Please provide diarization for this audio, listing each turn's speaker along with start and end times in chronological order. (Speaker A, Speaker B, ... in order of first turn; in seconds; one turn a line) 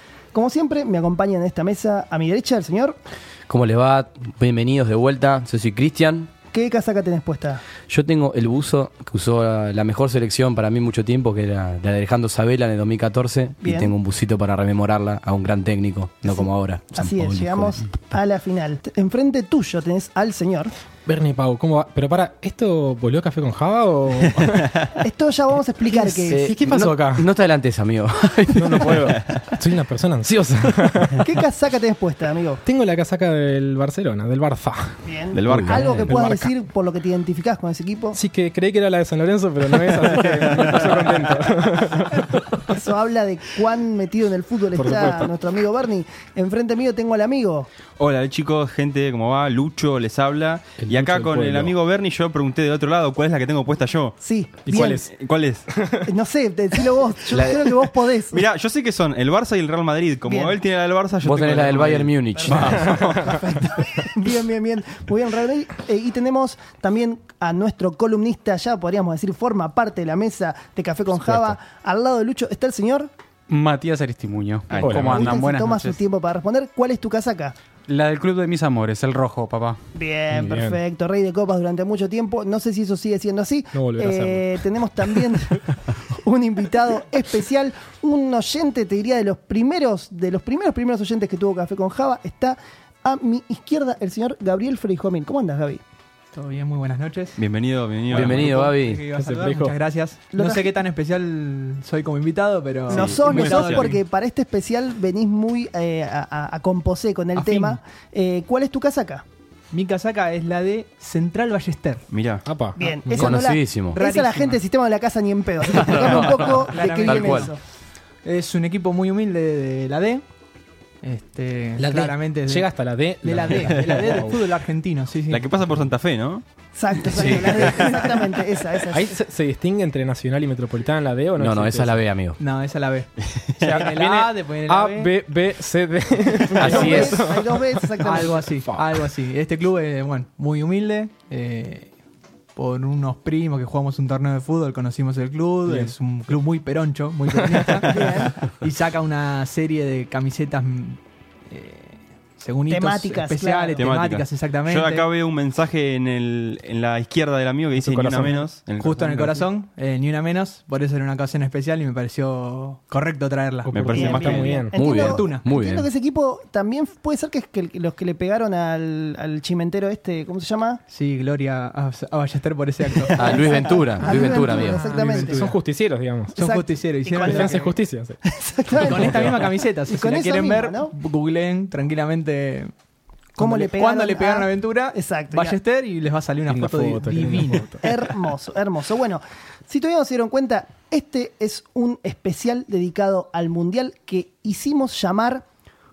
Speaker A: 0.3-3.0
Speaker B: 3.5-6.3
Speaker A: 6.5-7.6
Speaker B: 7.9-17.8
Speaker A: 13.6-13.9
Speaker A: 16.3-20.7
Speaker C: 21.1-24.7
Speaker A: 25.0-26.6
Speaker C: 25.9-27.3
Speaker B: 26.7-29.1
Speaker C: 28.5-31.3
Speaker A: 31.2-32.6
Speaker C: 32.6-36.4
Speaker A: 35.0-38.2
Speaker D: 35.3-36.5
Speaker C: 38.1-42.3
Speaker A: 42.7-47.7
Speaker C: 44.7-45.3
Speaker D: 48.0-54.2
Speaker C: 50.8-51.7
Speaker A: 54.2-55.0
Speaker C: 54.6-55.1
Speaker D: 55.0-55.7
Speaker C: 55.7-56.1
Speaker A: 56.0-58.4
Speaker B: 57.3-57.6
Speaker D: 58.3-63.4
Speaker A: 60.2-60.6
Speaker B: 61.2-63.0
Speaker A: 62.4-73.1
Speaker C: 71.1-71.5
Speaker E: 73.5-76.0
Speaker D: 74.7-75.0
Speaker C: 74.8-75.4
Speaker A: 75.0-77.5
Speaker E: 77.9-79.8
Speaker A: 79.9-95.8
Speaker C: 80.3-80.8
Speaker C: 83.7-85.5
Speaker F: 96.3-97.4
Speaker D: 97.4-98.7
Speaker F: 98.1-104.0
Speaker B: 98.1-99.0
Speaker C: 99.1-99.8
Speaker A: 100.3-100.7
Speaker D: 102.9-103.9
Speaker A: 102.9-109.2
Speaker F: 107.3-107.8
Speaker F: 109.7-112.1
Speaker D: 112.1-112.5
Speaker C: 112.4-113.4
Speaker A: 112.8-117.6
Speaker B: 113.2-114.0
Speaker F: 113.9-114.6
Speaker B: 115.7-117.5
Speaker F: 115.9-117.5
Speaker F: 118.2-120.2
Speaker F: 121.0-122.7
Speaker C: 121.8-124.4
Speaker F: 123.2-125.5
Speaker D: 125.3-126.4
Speaker A: 126.7-129.1
Speaker B: 127.0-127.8
Speaker F: 127.3-128.1
Speaker C: 128.9-132.0
Speaker B: 131.4-132.4
Speaker F: 132.4-133.1
Speaker D: 133.2-133.8
Speaker C: 133.6-139.1
Speaker F: 133.6-135.1
Speaker B: 136.5-137.3
Speaker A: 136.6-138.4
Speaker F: 136.6-137.0
Speaker F: 138.0-141.9
Speaker F: 142.5-155.1
Speaker C: 145.7-145.9
Speaker C: 147.3-148.0
Speaker A: 147.9-148.4
Speaker A: 152.7-153.9
Speaker D: 153.8-159.4
Speaker C: 157.7-158.4
Speaker F: 158.8-163.9
Speaker C: 163.7-165.1
Speaker D: 163.7-164.7
Speaker A: 163.9-170.8
Speaker B: 164.7-165.9
Speaker F: 165.0-165.4
Speaker F: 170.9-175.5
Speaker A: 173.0-175.4
Speaker B: 173.1-174.8
Speaker C: 174.8-176.4
Speaker F: 176.3-177.8
Speaker A: 176.4-177.7
Speaker C: 177.2-178.2
Speaker A: 178.2-180.9
Speaker C: 178.8-179.3
Speaker F: 178.8-182.7
Speaker A: 183.4-185.6
Speaker F: 183.4-187.8
Speaker C: 186.5-188.0
Speaker A: 187.8-195.4